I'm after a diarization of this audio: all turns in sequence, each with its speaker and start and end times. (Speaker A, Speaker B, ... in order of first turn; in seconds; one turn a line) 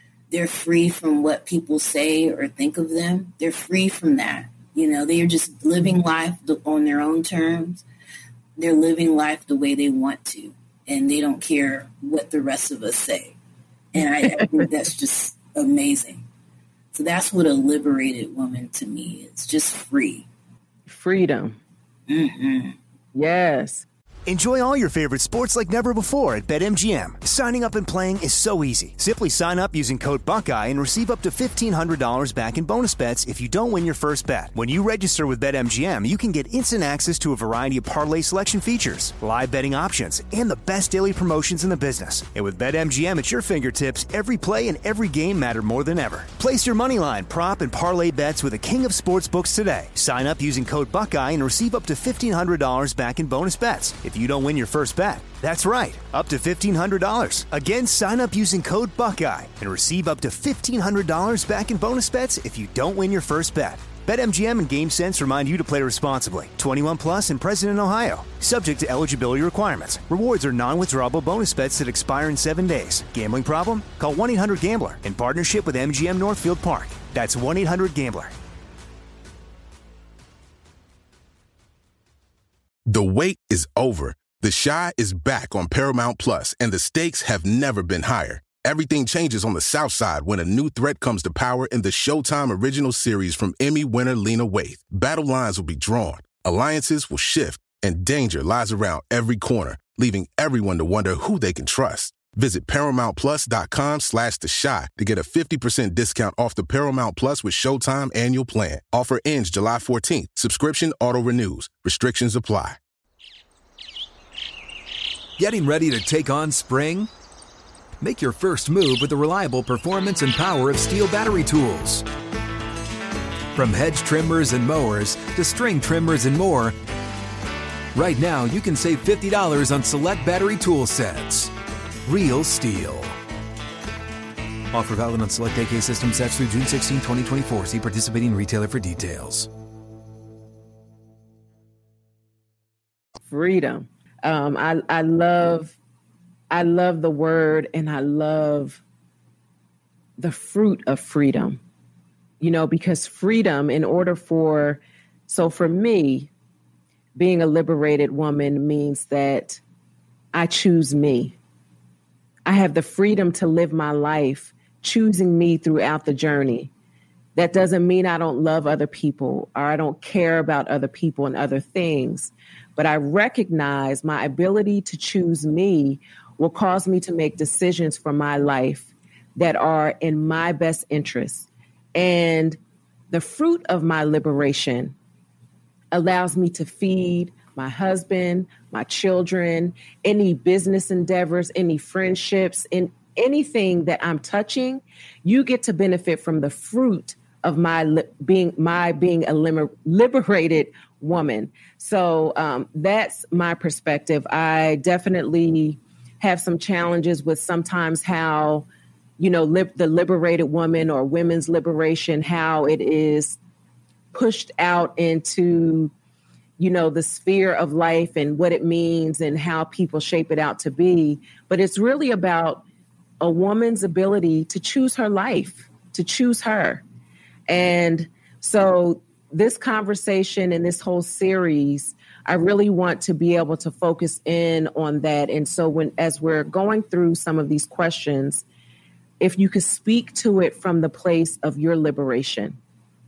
Speaker A: 0.3-7.8
Speaker A: 8.6-13.3
Speaker A: 13.9-16.2
Speaker B: 14.0-14.6
Speaker A: 16.9-20.3
Speaker B: 20.9-21.6
Speaker A: 22.1-22.8
Speaker B: 23.1-23.9
Speaker C: 24.3-78.3
Speaker D: 82.9-112.8
Speaker E: 115.4-117.1
Speaker E: 118.0-122.0
Speaker E: 123.5-126.8
Speaker E: 127.9-131.5
Speaker E: 132.1-133.2
Speaker E: 134.7-139.5
Speaker B: 143.2-145.7
Speaker B: 146.5-148.8
Speaker B: 150.2-151.6
Speaker B: 152.4-156.3
Speaker B: 157.2-159.6
Speaker B: 160.3-161.3
Speaker B: 162.5-166.7
Speaker B: 167.4-182.6
Speaker B: 183.1-184.9
Speaker B: 185.9-208.7
Speaker B: 209.2-213.4
Speaker B: 214.1-215.9
Speaker B: 216.6-222.6
Speaker B: 223.2-226.8
Speaker B: 227.5-238.4
Speaker B: 239.2-242.6